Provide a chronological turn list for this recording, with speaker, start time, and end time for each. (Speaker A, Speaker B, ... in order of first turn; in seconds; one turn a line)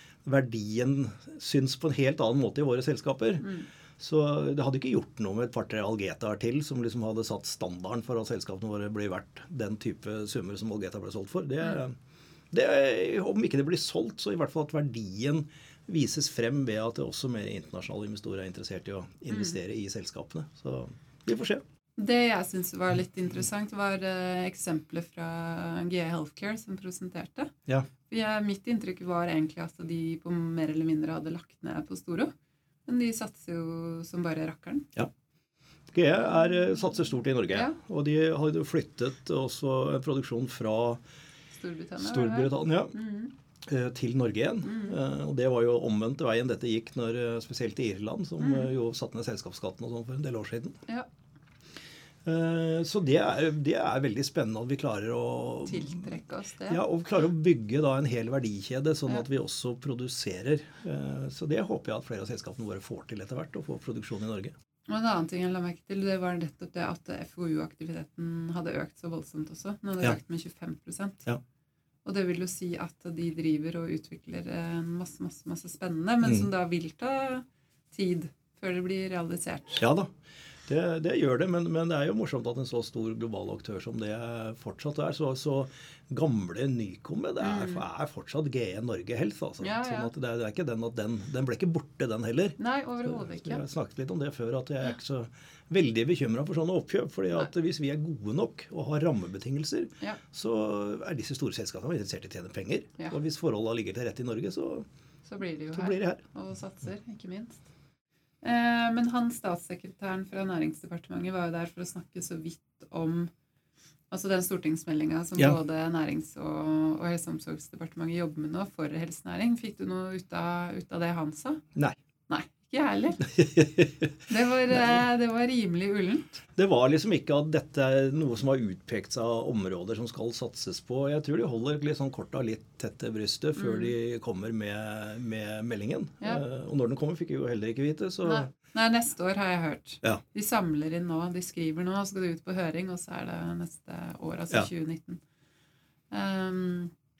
Speaker A: 0.2-3.5
Speaker B: 3.4-3.7
Speaker A: 4.0-11.9
Speaker A: 12.5-21.6
Speaker B: 19.3-19.6
Speaker B: 22.0-27.5
Speaker B: 28.0-32.3
Speaker B: 32.9-34.9
Speaker A: 35.9-41.0
Speaker B: 36.3-36.6
Speaker B: 37.5-37.8
Speaker B: 41.5-43.3
Speaker A: 42.0-42.9
Speaker A: 43.6-50.8
Speaker B: 44.6-45.0
Speaker B: 48.4-48.7
Speaker A: 52.2-56.1
Speaker B: 55.6-56.8
Speaker A: 56.7-64.5
Speaker B: 64.9-71.2
Speaker B: 72.0-79.8
Speaker A: 79.8-80.1
Speaker A: 80.7-104.8
Speaker B: 87.4-87.8
Speaker B: 89.6-90.1
Speaker B: 92.6-93.6
Speaker B: 105.2-107.7
Speaker A: 105.7-106.2
Speaker B: 108.4-113.3
Speaker B: 114.1-121.6
Speaker B: 122.3-123.4
Speaker A: 123.4-124.1
Speaker B: 124.2-126.4
Speaker A: 126.5-138.5
Speaker B: 133.6-133.9
Speaker B: 138.2-145.2
Speaker B: 146.1-146.9